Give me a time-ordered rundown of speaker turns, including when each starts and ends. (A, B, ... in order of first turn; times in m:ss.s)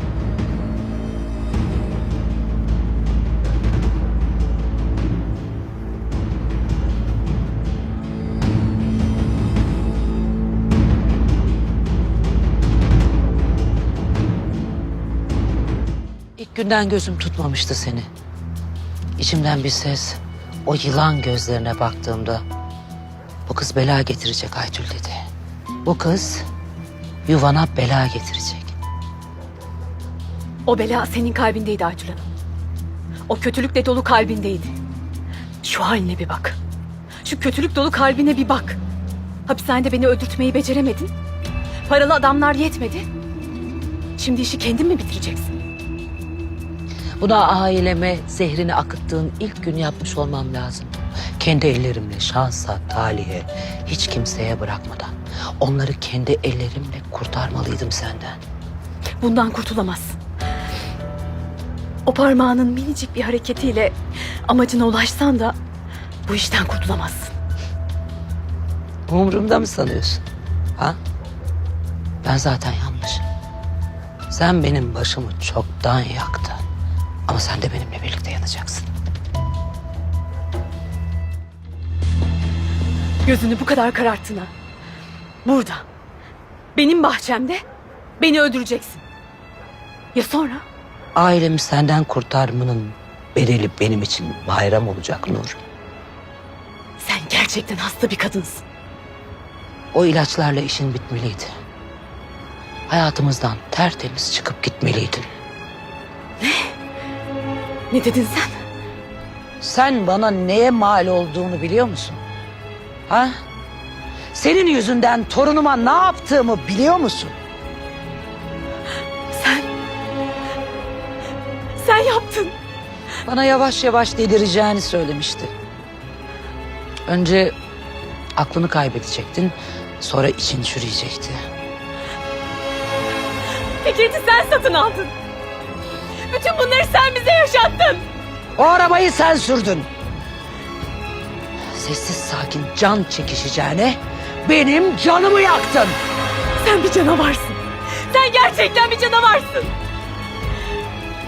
0:16.4-0:18.1 A
0:19.2-0:22.4 A
0:23.4-0:25.2 A
0:25.8-0:26.4 A
0:27.3-0:28.7 A
0:30.6-0:32.2 B
0:33.3-0:34.8 B
0:35.6-0:36.6 B
0:37.2-0:38.8 B
0:39.5-0:41.1 B
0:41.9-0:43.1 B
0:44.2-0:45.6 B
0:47.2-0:58.4 A
0:59.2-1:00.2 B
1:02.0-1:05.6 B
1:06.2-1:07.3 B
1:09.1-1:10.2 A
1:12.2-1:13.2 A
1:14.3-1:16.6 A
1:17.3-1:18.9 A
1:23.2-1:24.5 B
1:25.4-1:25.8 B
1:26.7-1:27.6 B
1:28.2-1:29.0 B
1:30.1-1:30.6 B
1:31.1-1:35.6 A
1:37.0-1:38.6 B
1:39.9-1:41.5 A
1:42.9-1:45.3 A
1:46.4-1:46.7 B
1:47.9-1:48.6 B
1:49.6-1:52.2 A
1:53.1-1:53.4 A
1:54.3-1:57.4 A
1:59.3-1:59.7 B
2:01.7-2:02.5 B
2:03.2-2:05.5 A
2:07.1-2:07.5 A
2:08.4-2:11.4 A
2:13.8-2:15.1 B
2:16.3-2:18.0 B
2:18.6-2:19.9 A
2:21.7-2:26.0 A
2:26.6-2:29.7 B